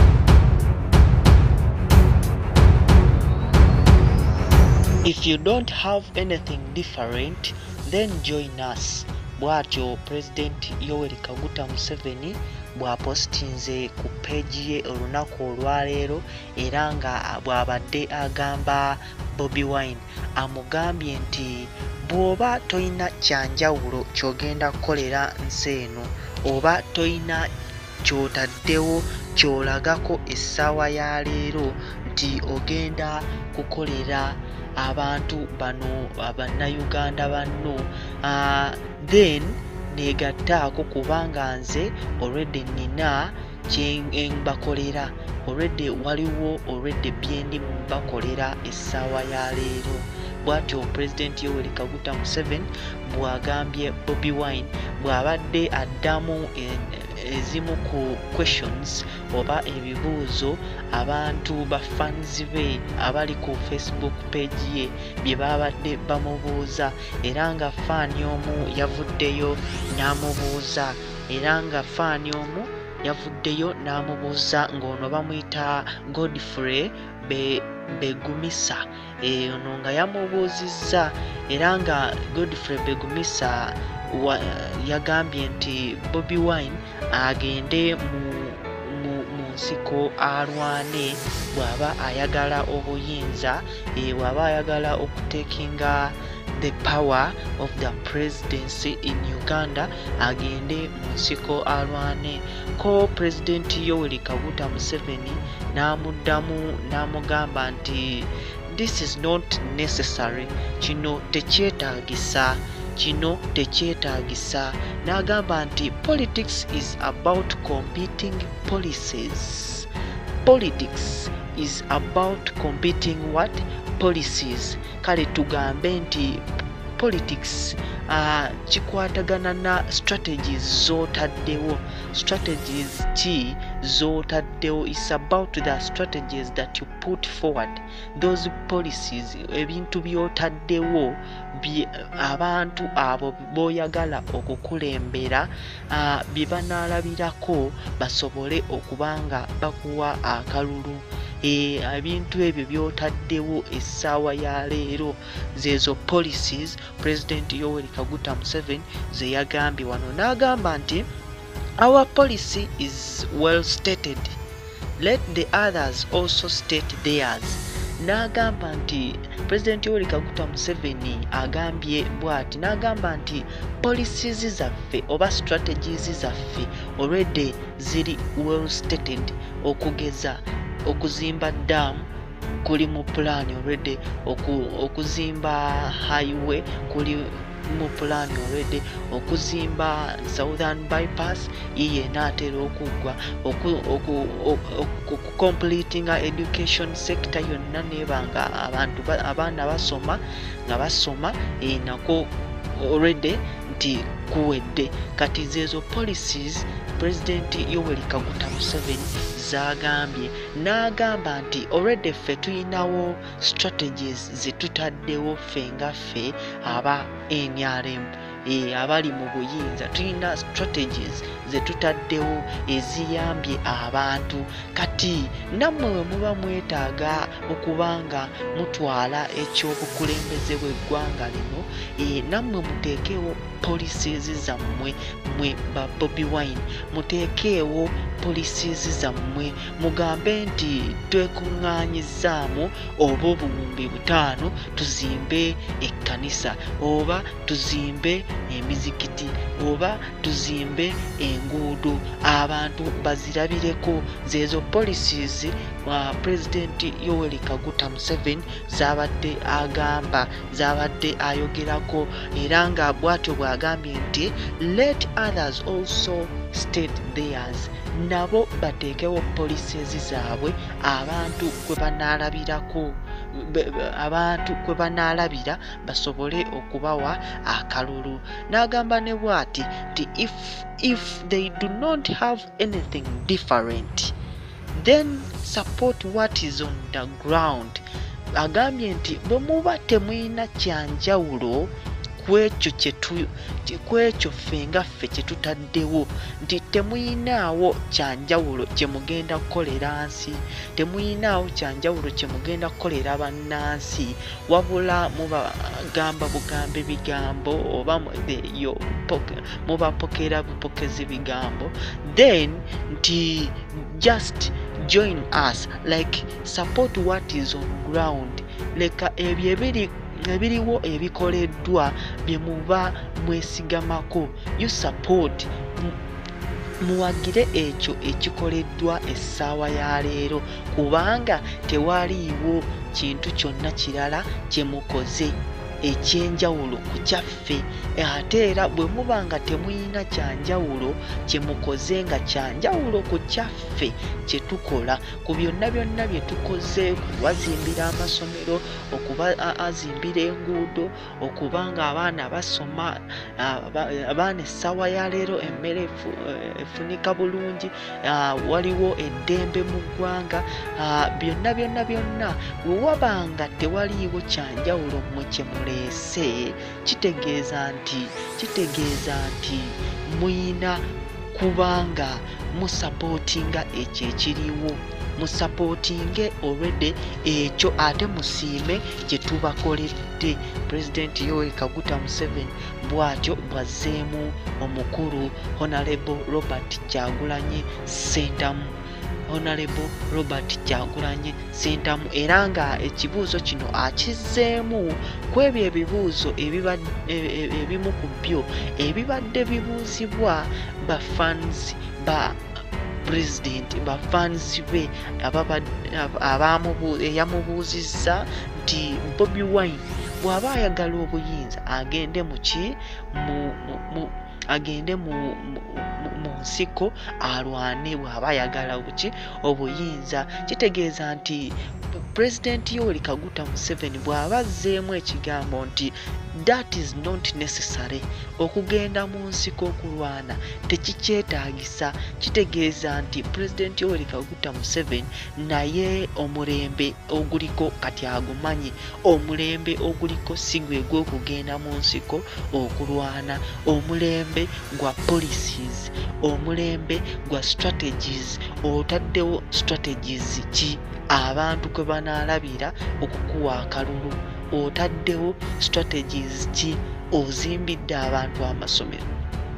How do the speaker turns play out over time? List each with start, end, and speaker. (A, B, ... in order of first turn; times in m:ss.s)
0:05.0-0:27.5 A
0:28.0-1:59.9 A
2:00.4-2:06.4 A
2:07.0-2:41.1 A
2:41.8-2:44.4 A
2:45.0-3:02.1 A
3:02.6-4:44.1 A
4:44.8-4:47.8 A
4:48.4-5:26.0 A
5:26.8-6:28.8 A
6:29.3-6:42.4 A
6:43.0-7:39.1 A